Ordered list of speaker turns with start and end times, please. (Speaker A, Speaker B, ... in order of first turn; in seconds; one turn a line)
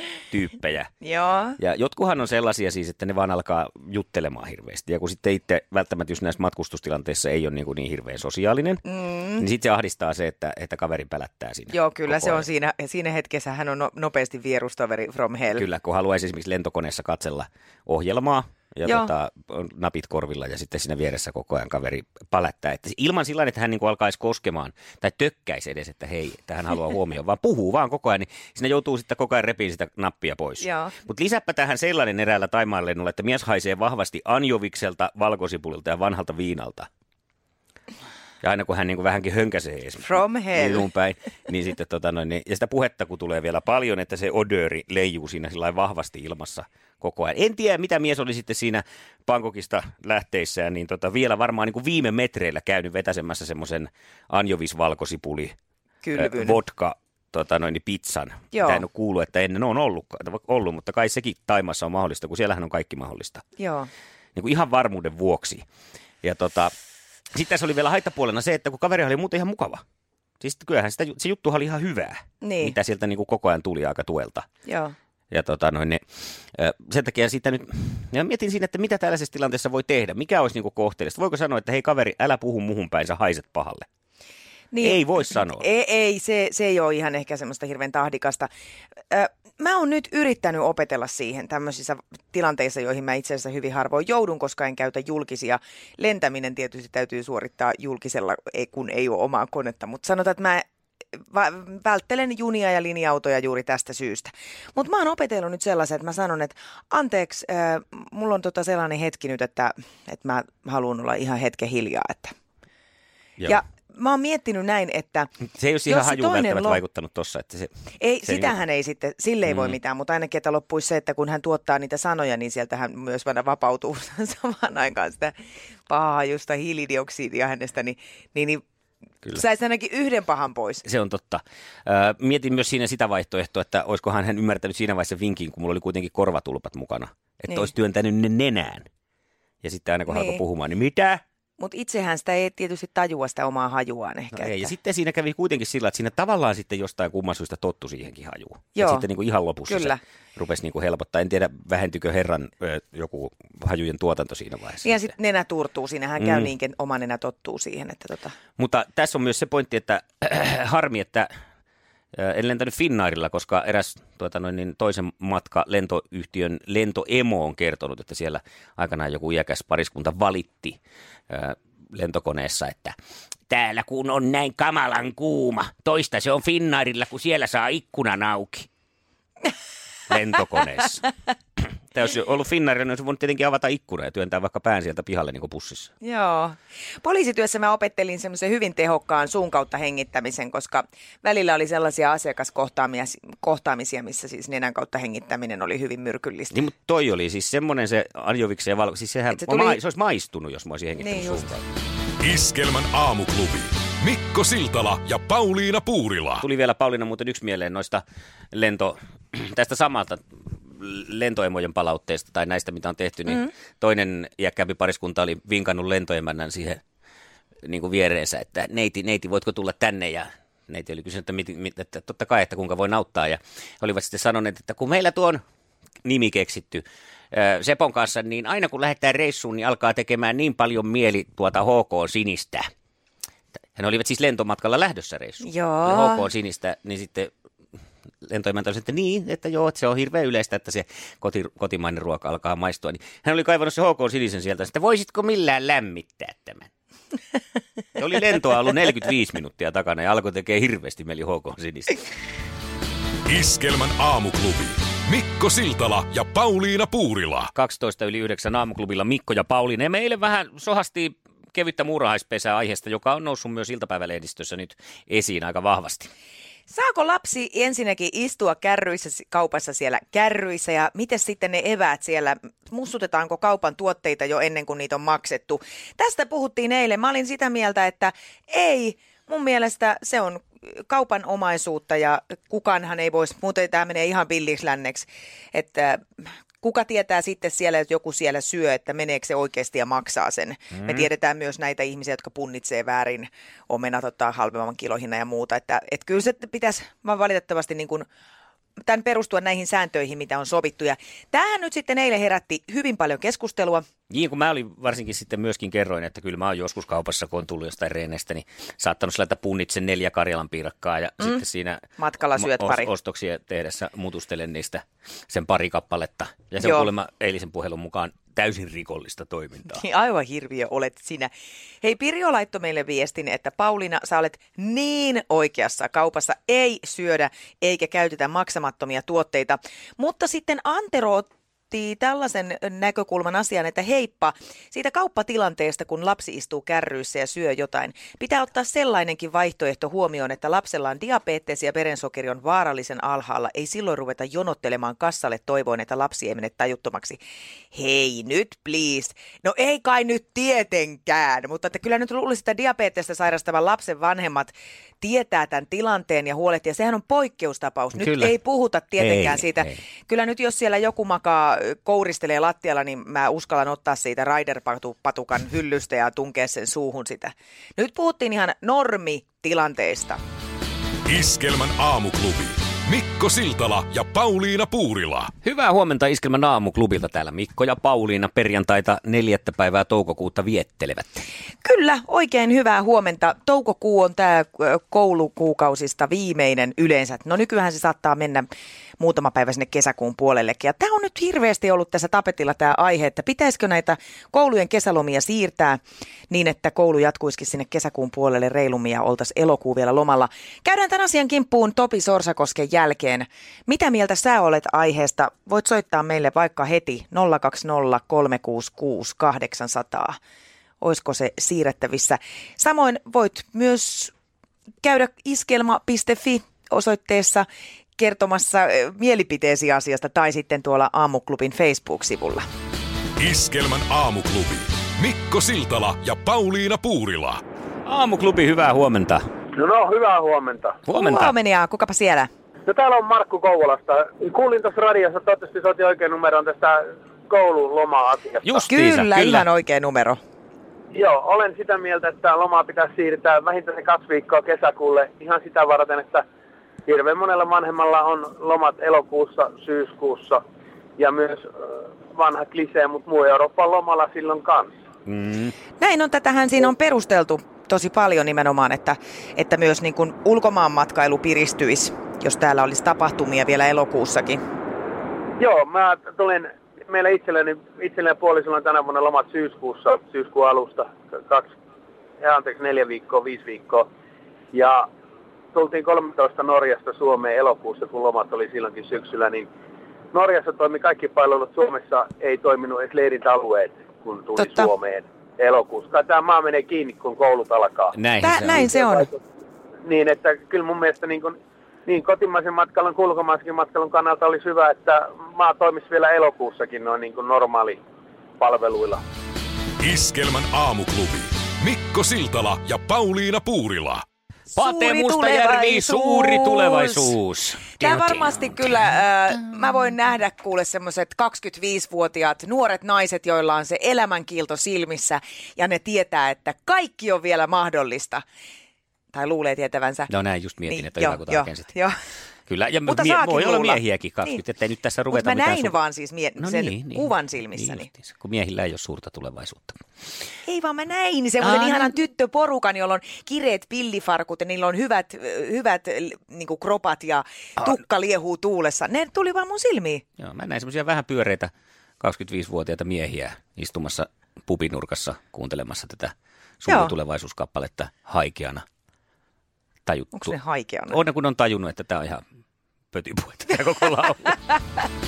Speaker A: 0.3-0.9
Speaker B: 1.0-1.6
Speaker A: 1.6-8.8
Speaker B: 8.9-9.4
Speaker A: 9.4-12.4
Speaker B: 11.7-15.6
Speaker A: 15.5-36.9
Speaker B: 18.8-19.1
Speaker B: 30.6-30.9
Speaker A: 38.4-55.5
Speaker B: 40.0-40.9
Speaker B: 56.0-56.6
Speaker A: 56.1-63.4
Speaker B: 58.5-58.8
Speaker B: 63.6-63.9
Speaker A: 64.3-65.6
Speaker A: 66.2-66.7
Speaker A: 67.3-69.8
Speaker A: 70.4-74.5
Speaker B: 72.4-72.8
Speaker B: 74.7-74.9
Speaker A: 75.3-76.0
Speaker A: 76.5-83.8
Speaker B: 84.7-88.5
Speaker A: 84.8-85.7
Speaker B: 89.1-112.3
Speaker B: 113.4-115.3
Speaker A: 115.5-117.7
Speaker B: 115.9-116.8
Speaker B: 118.0-125.3
Speaker A: 118.2-118.6
Speaker A: 119.5-119.8
Speaker B: 125.9-128.6
Speaker B: 129.3-130.8
Speaker A: 130.8-138.9
Speaker A: 139.6-141.2
Speaker B: 140.1-140.4
Speaker B: 141.6-144.7
Speaker A: 144.3-155.1
Speaker B: 148.8-149.1
Speaker B: 149.7-150.0
Speaker B: 154.8-158.3
Speaker A: 156.2-156.5
Speaker A: 158.6-161.3
Speaker A: 162.1-170.8
Speaker A: 171.3-172.9
Speaker A: 173.5-178.7
Speaker A: 180.1-181.1
Speaker A: 181.9-185.9
Speaker B: 186.0-196.6
Speaker A: 196.5-201.6
Speaker B: 199.3-199.8
Speaker B: 201.0-201.5
Speaker C: 202.2-206.4
Speaker A: 206.4-216.8
Speaker A: 217.6-225.4
Speaker A: 226.0-232.7
Speaker A: 233.7-237.3
Speaker B: 235.4-236.2
Speaker A: 238.2-246.7
Speaker A: 247.9-252.0
Speaker C: 253.3-257.5
Speaker A: 257.5-266.1
Speaker B: 266.7-298.1
Speaker B: 298.9-303.8
Speaker A: 304.1-311.8
Speaker B: 312.0-312.9
Speaker A: 312.3-319.8
Speaker B: 316.6-316.9
Speaker B: 319.7-321.3
Speaker B: 321.8-347.2
Speaker B: 347.7-370.2
Speaker A: 357.9-358.3
Speaker A: 359.0-359.8
Speaker C: 371.1-375.3
Speaker A: 375.4-381.2
Speaker B: 381.6-388.5
Speaker B: 389.0-410.2
Speaker B: 410.8-414.1
Speaker B: 414.8-417.4
Speaker B: 418.0-422.4
Speaker C: 423.2-427.4
Speaker A: 427.9-429.3
Speaker D: 429.5-430.8
Speaker A: 430.9-431.3
Speaker B: 430.9-432.3
Speaker D: 432.7-436.8
Speaker D: 437.3-438.7
Speaker A: 438.4-439.5
Speaker B: 438.7-440.2
Speaker D: 440.9-446.2
Speaker D: 446.9-450.4
Speaker D: 451.0-451.4
Speaker D: 452.1-454.7
Speaker A: 455.1-455.5
Speaker B: 455.8-464.4
Speaker D: 465.4-471.5
Speaker D: 472.2-473.9
Speaker D: 474.5-474.8
Speaker D: 475.5-479.5
Speaker D: 480.1-489.2
Speaker B: 484.4-484.7
Speaker A: 487.9-488.6
Speaker B: 488.2-489.1
Speaker D: 489.8-491.4
Speaker D: 491.9-497.8
Speaker D: 498.4-499.0
Speaker C: 499.8-504.0
Speaker B: 504.6-507.1
Speaker A: 504.6-508.9
Speaker B: 507.8-518.2
Speaker B: 519.1-520.1
Speaker A: 520.1-521.7
Speaker B: 520.7-521.9
Speaker A: 522.5-525.8
Speaker B: 522.9-524.4
Speaker B: 525.1-527.9
Speaker A: 526.4-529.8
Speaker B: 530.4-540.0
Speaker A: 531.4-531.9
Speaker A: 540.2-548.6
Speaker B: 546.7-546.9
Speaker A: 549.9-550.3
Speaker B: 550.1-551.0
Speaker A: 550.9-552.2
Speaker A: 552.9-554.4